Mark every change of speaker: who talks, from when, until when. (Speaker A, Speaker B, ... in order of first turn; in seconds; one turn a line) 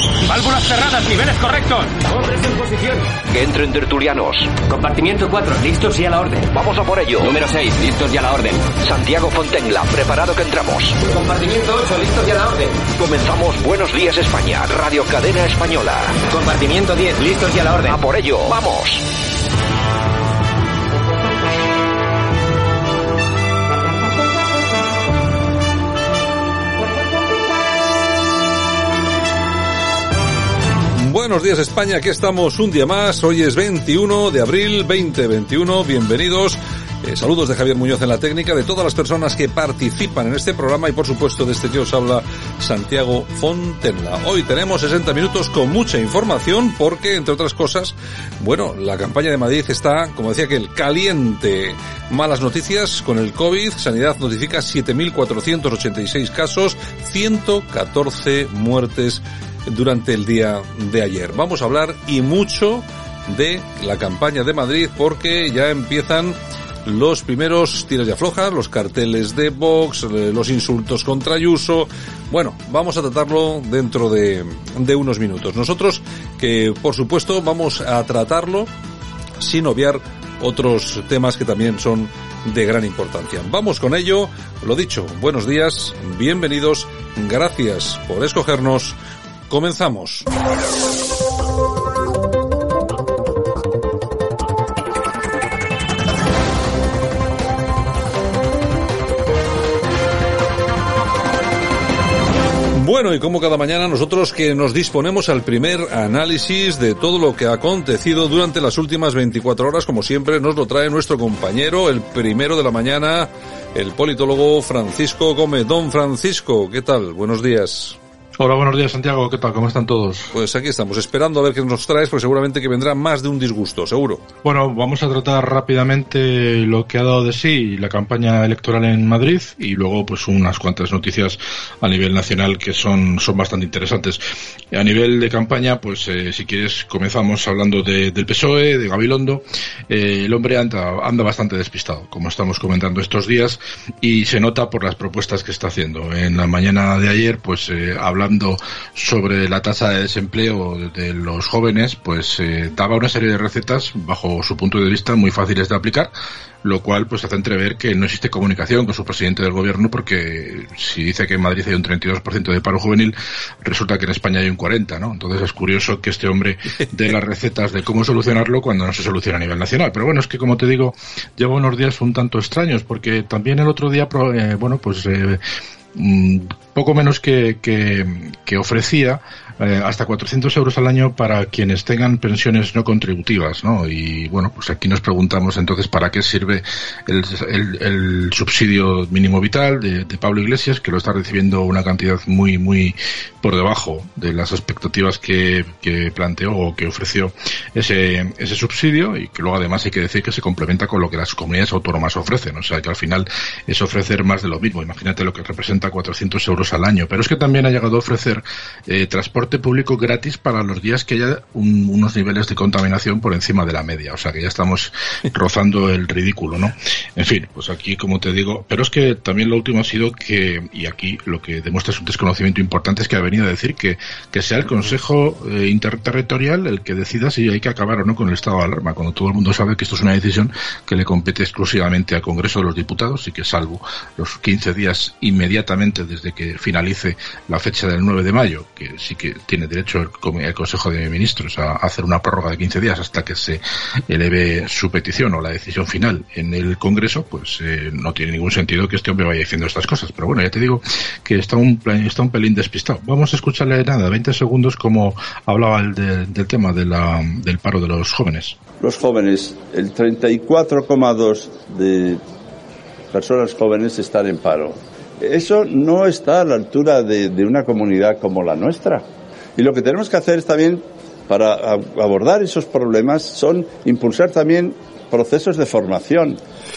Speaker A: 0.3-3.0
Speaker B: 3.3-4.6
Speaker A: 4.6-6.5
Speaker B: 6.5-7.3
Speaker A: 7.2-8.8
Speaker B: 8.8-11.0
Speaker A: 11.0-12.8
Speaker B: 13.0-16.2
Speaker A: 16.2-18.0
Speaker B: 17.9-19.0
Speaker C: 31.0-78.7
Speaker C: 79.4-89.0
Speaker C: 89.5-90.3
Speaker C: 102.7-118.0
Speaker D: 118.4-120.3
Speaker C: 120.3-124.2
Speaker D: 124.4-175.4
Speaker D: 175.9-258.6
Speaker E: 258.8-262.2
Speaker E: 263.1-269.1
Speaker E: 269.6-276.4